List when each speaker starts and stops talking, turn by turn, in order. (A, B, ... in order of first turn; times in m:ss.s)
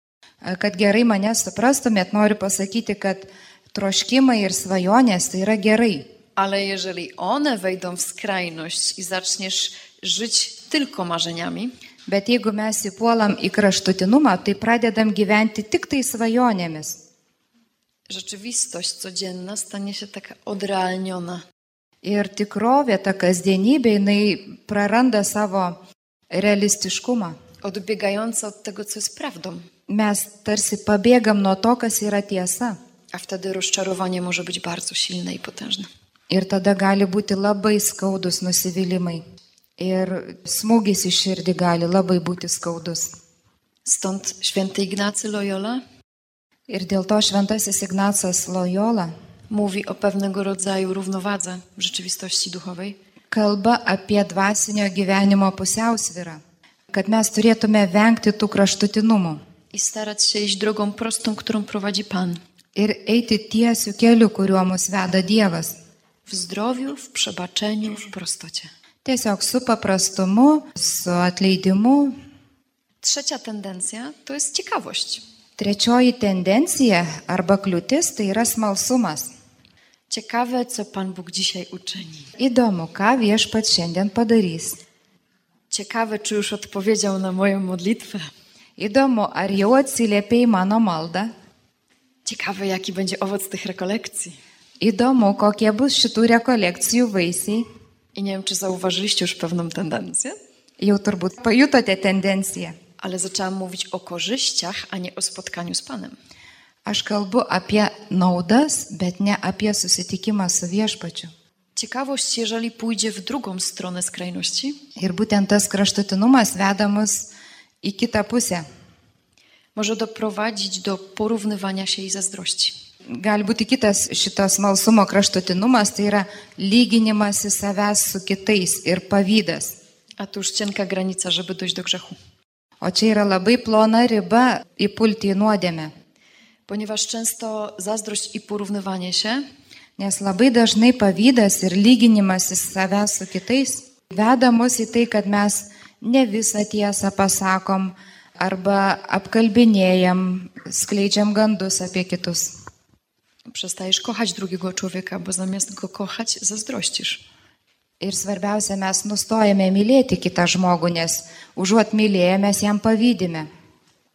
0:00.4-0:06.0 A
0:06.4-0:11.7 B
0:12.1-0:17.0 A
0:18.1-0:21.4 B
0:22.0-0:25.8 A
0:26.3-0:27.4 A
0:27.6-0:29.7 B
0:29.9-0:32.8 A
0:33.1-0:35.9 B
0:36.3-0:39.2 A
0:39.8-0:43.1 A
0:43.8-0:45.8 B
0:46.7-0:49.1 A
0:49.5-0:53.0 B
0:53.3-0:59.4 A
0:59.7-1:02.4 B
1:02.8-1:05.8 A
1:06.3-1:08.7 B
1:09.0-1:12.1 A
1:13.0-1:15.2 B
1:15.6-1:19.3 A
1:20.1-1:22.3 B
1:22.4-1:24.8 A
1:25.7-1:28.3 B
1:28.8-1:31.3 A
1:32.2-1:34.4 B
1:34.8-1:37.6 A
1:38.1-1:40.4 B
1:40.8-1:42.8 A
1:43.0-1:46.2 B
1:46.9-1:51.3 A
1:51.8-1:54.8 B
1:55.0-1:57.3 A
1:57.8-1:58.6 A
1:59.8-2:02.8 B
2:03.1-2:09.8 A
2:10.2-2:12.2 B
2:12.8-2:15.9 A
2:16.7-2:19.4 B
2:20.0-2:32.5 A
2:33.5-2:37.2 B
2:38.0-2:43.5 A